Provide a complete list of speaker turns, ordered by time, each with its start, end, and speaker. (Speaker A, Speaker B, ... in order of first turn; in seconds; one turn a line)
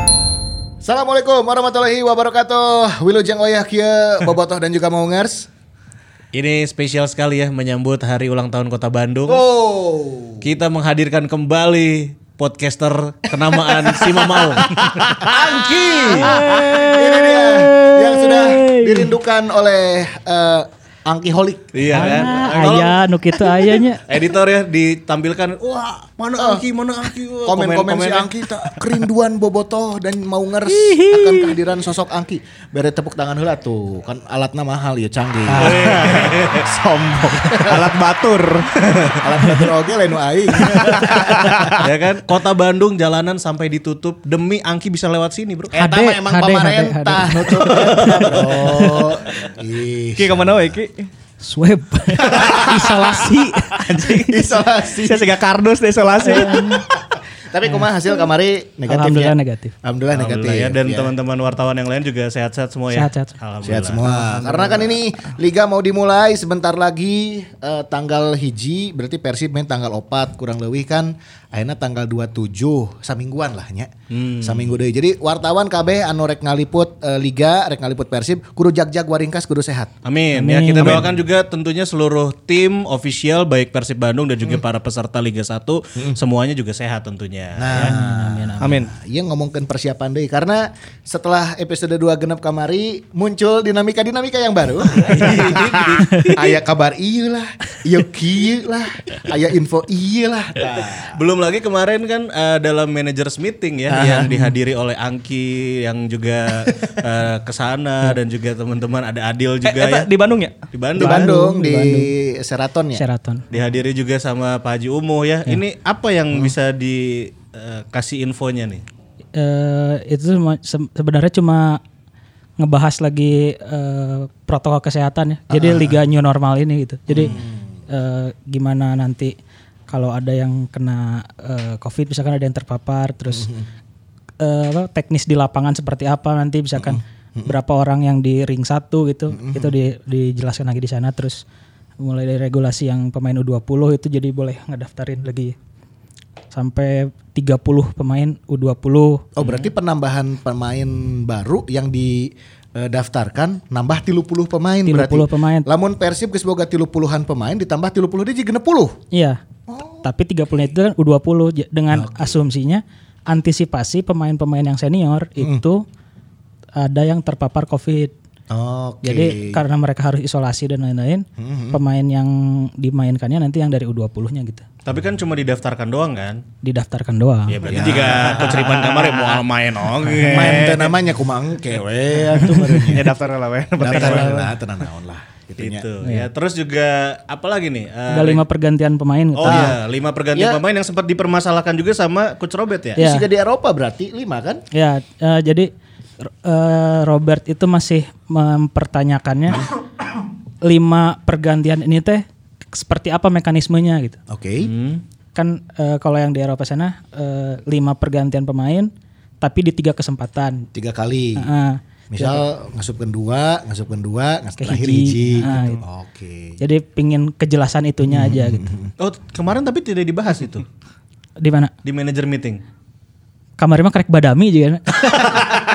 Speaker A: 0.8-5.5
Speaker B: 6.3-9.4
Speaker A: 9.3-10.5
Speaker B: 10.4-16.8
Speaker A: 13.4-22.8
Speaker C: 16.2-19.1
Speaker B: 21.7-23.0
Speaker D: 21.9-24.0
Speaker B: 24.1-28.5
Speaker A: 26.4-26.6
Speaker A: 27.4-36.6
Speaker D: 30.7-31.6
Speaker D: 35.5-36.1
Speaker B: 35.6-36.9
Speaker C: 36.1-39.2
Speaker A: 37.3-38.0
Speaker A: 39.2-41.9
Speaker C: 40.7-41.8
Speaker D: 41.1-41.5
Speaker B: 41.4-45.7
Speaker A: 45.7-50.6
Speaker D: 45.8-49.0
Speaker B: 47.6-49.4
Speaker C: 50.2-51.1
Speaker D: 51.4-54.4
Speaker A: 52.2-53.2
Speaker A: 54.1-55.3
Speaker C: 54.9-56.8
Speaker D: 56.3-56.8
Speaker A: 56.3-61.1
Speaker D: 58.9-59.7
Speaker B: 60.1-64.0
Speaker D: 62.9-63.3
Speaker A: 63.6-79.9
Speaker C: 64.0-65.0
Speaker B: 74.1-74.7
Speaker B: 80.0-87.9
Speaker D: 80.3-81.0
Speaker C: 80.8-81.1
Speaker A: 87.5-101.2
Speaker D: 87.7-88.7
Speaker C: 88.6-88.9
Speaker B: 95.0-96.4
Speaker C: 95.3-95.6
Speaker D: 96.0-96.3
Speaker B: 100.9-110.1
Speaker A: 103.9-104.3
Speaker C: 109.6-110.5
Speaker B: 110.7-111.3
Speaker A: 111.0-113.0
Speaker D: 111.0-112.1
Speaker D: 113.0-113.4
Speaker B: 113.5-118.8
Speaker D: 119.3-121.8
Speaker D: 122.6-127.4
Speaker A: 125.5-126.0
Speaker A: 127.1-127.6
Speaker D: 127.9-129.3
Speaker D: 129.9-133.5
Speaker A: 133.3-133.7
Speaker D: 134.4-141.4
Speaker A: 136.8-137.5
Speaker A: 139.3-139.8
Speaker D: 142.0-145.6
Speaker D: 146.5-149.3
Speaker A: 149.3-159.0
Speaker D: 154.8-155.7
Speaker D: 159.1-159.4
Speaker A: 159.7-160.0
Speaker D: 160.0-165.8
Speaker A: 161.9-162.3
Speaker A: 165.4-165.6
Speaker D: 166.8-168.1
Speaker A: 168.5-169.6
Speaker D: 169.0-174.6
Speaker A: 171.4-171.8
Speaker B: 174.8-176.4
Speaker D: 176.6-177.6
Speaker B: 177.5-180.9
Speaker A: 177.7-178.7
Speaker C: 178.0-179.4
Speaker A: 180.2-183.2
Speaker D: 182.4-182.9
Speaker C: 182.7-184.5
Speaker A: 183.8-185.8
Speaker D: 183.8-184.4
Speaker B: 185.6-188.4
Speaker D: 186.0-186.3
Speaker D: 188.1-189.7
Speaker B: 189.3-193.0
Speaker A: 189.4-189.8
Speaker A: 190.3-190.6
Speaker D: 193.0-193.3
Speaker A: 193.0-194.6
Speaker D: 194.7-195.7
Speaker D: 196.2-199.7
Speaker D: 200.6-204.2
Speaker A: 204.3-204.7
Speaker B: 204.6-205.0
Speaker D: 205.3-208.9
Speaker D: 209.4-210.7
Speaker A: 210.7-211.5
Speaker D: 211.4-212.4
Speaker A: 212.1-216.6
Speaker D: 214.6-215.8
Speaker C: 215.5-215.7
Speaker D: 216.6-218.7
Speaker A: 218.0-218.9
Speaker B: 219.0-220.7
Speaker D: 221.4-221.7
Speaker B: 221.8-222.6
Speaker D: 223.6-225.5